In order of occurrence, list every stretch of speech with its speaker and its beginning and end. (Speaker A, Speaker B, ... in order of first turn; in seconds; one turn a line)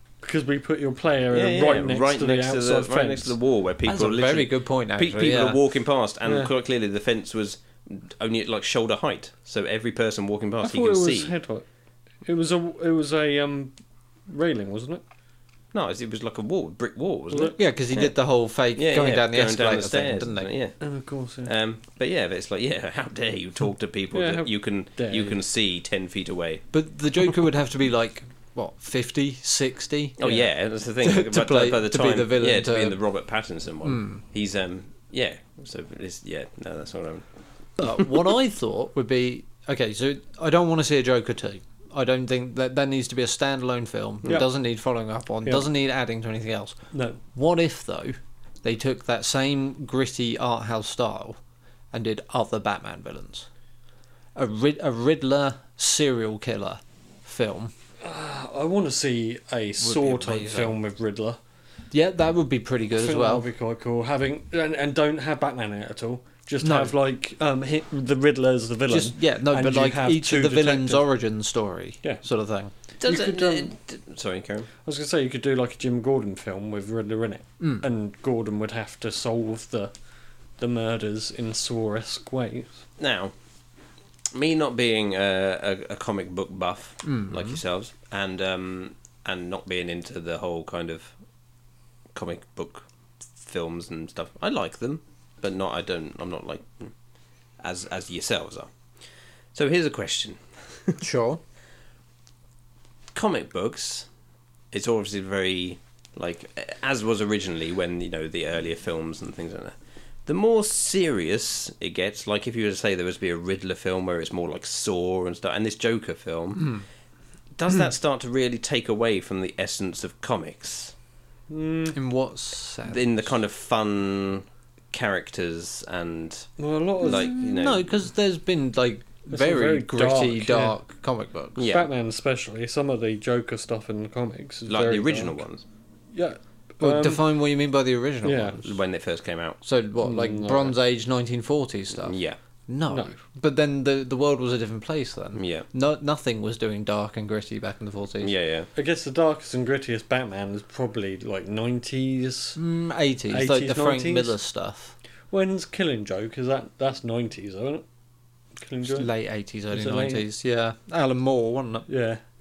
Speaker A: 0.2-3.4
Speaker B: 1.3-11.3
Speaker C: 3.9-5.6
Speaker A: 6.2-6.5
Speaker A: 10.6-11.6
Speaker A: 12.2-13.8
Speaker A: 14.3-15.0
Speaker B: 15.7-18.1
Speaker A: 17.3-17.6
Speaker C: 17.6-20.5
Speaker B: 18.7-20.8
Speaker A: 20.8-21.5
Speaker B: 21.4-26.6
Speaker A: 24.1-25.4
Speaker C: 26.7-30.5
Speaker B: 30.2-37.2
Speaker C: 31.0-33.0
Speaker C: 33.9-34.2
Speaker C: 37.8-46.8
Speaker A: 46.9-47.2
Speaker C: 47.3-51.4
Speaker C: 51.9-53.5
Speaker C: 54.4-57.7
Speaker A: 58.0-61.4
Speaker C: 59.8-60.8
Speaker C: 61.9-63.5
Speaker A: 63.0-71.0
Speaker C: 66.6-66.9
Speaker C: 68.9-72.7
Speaker B: 73.0-74.7
Speaker A: 73.0-73.7
Speaker A: 74.8-79.9
Speaker C: 77.6-77.9
Speaker A: 80.6-82.8
Speaker B: 83.0-83.3
Speaker B: 84.3-91.1
Speaker C: 87.0-87.6
Speaker B: 92.1-92.9
Speaker B: 93.4-96.9
Speaker B: 97.6-98.7
Speaker B: 99.5-101.0
Speaker C: 101.0-101.4
Speaker B: 103.1-104.1
Speaker B: 104.7-116.8
Speaker B: 117.6-120.9
Speaker A: 121.5-122.0
Speaker C: 121.9-123.3
Speaker B: 122.9-126.5
Speaker A: 126.6-127.4
Speaker B: 127.0-127.9
Speaker C: 127.0-131.6
Speaker A: 129.3-130.7
Speaker B: 131.6-131.9
Speaker A: 131.6-135.4
Speaker B: 134.7-135.6
Speaker A: 136.1-137.2
Speaker C: 136.8-138.6
Speaker A: 138.2-138.6
Speaker B: 138.6-139.6
Speaker C: 139.6-148.3
Speaker A: 140.0-140.7
Speaker B: 141.9-142.4
Speaker A: 142.9-143.2
Speaker B: 145.4-145.7
Speaker B: 148.2-148.7
Speaker A: 148.7-152.6
Speaker C: 152.6-154.9
Speaker A: 153.3-154.4
Speaker A: 155.3-157.8
Speaker A: 158.6-159.1
Speaker C: 158.8-161.9
Speaker A: 159.7-160.2
Speaker A: 161.9-162.2